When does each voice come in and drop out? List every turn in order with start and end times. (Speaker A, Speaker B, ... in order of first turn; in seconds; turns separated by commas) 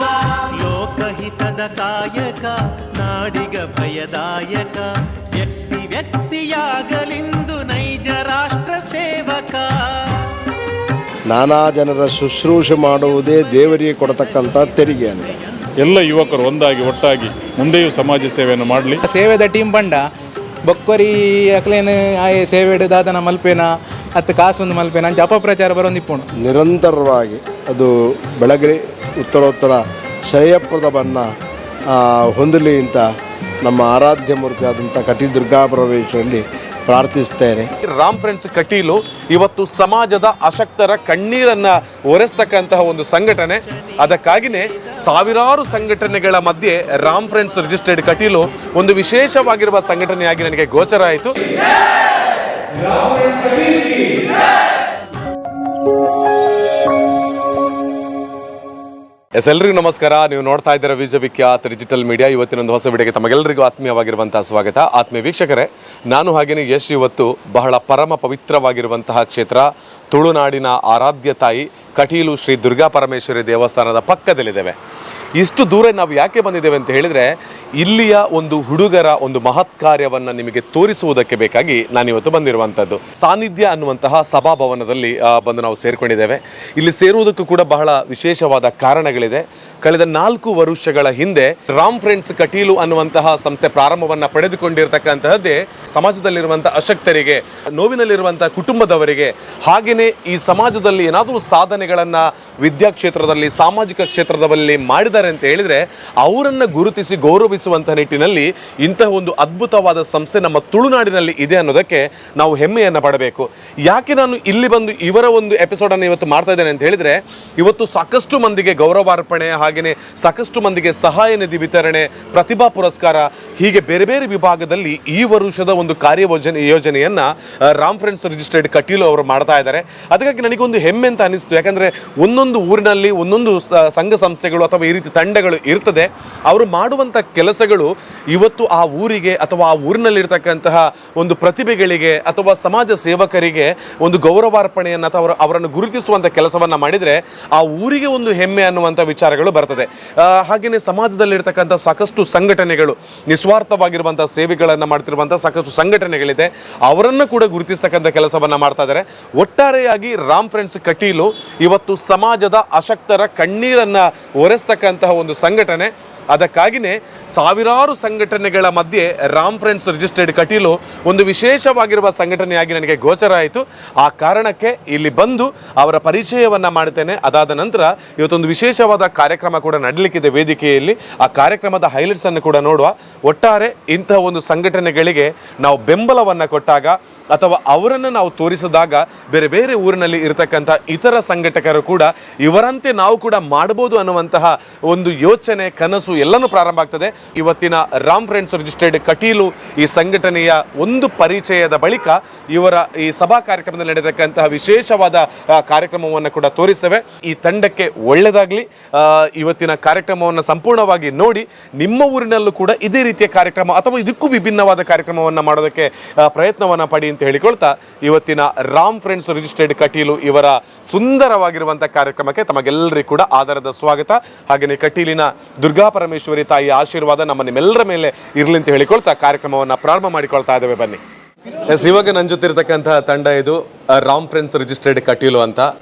Speaker A: 0.6-10.2, Speaker B: 11.3-15.3, Speaker A: 13.6-16.1, Speaker C: 15.8-19.0, Speaker D: 19.0-20.0, Speaker D: 20.7-26.3, Speaker B: 26.4-31.2, Speaker B: 31.9-33.0, Speaker B: 33.6-37.7, Speaker E: 37.8-51.5, Speaker A: 44.0-47.5, Speaker E: 52.9-54.1, Speaker E: 59.4-74.7, Speaker E: 75.4-231.0, Speaker E: 231.7-235.7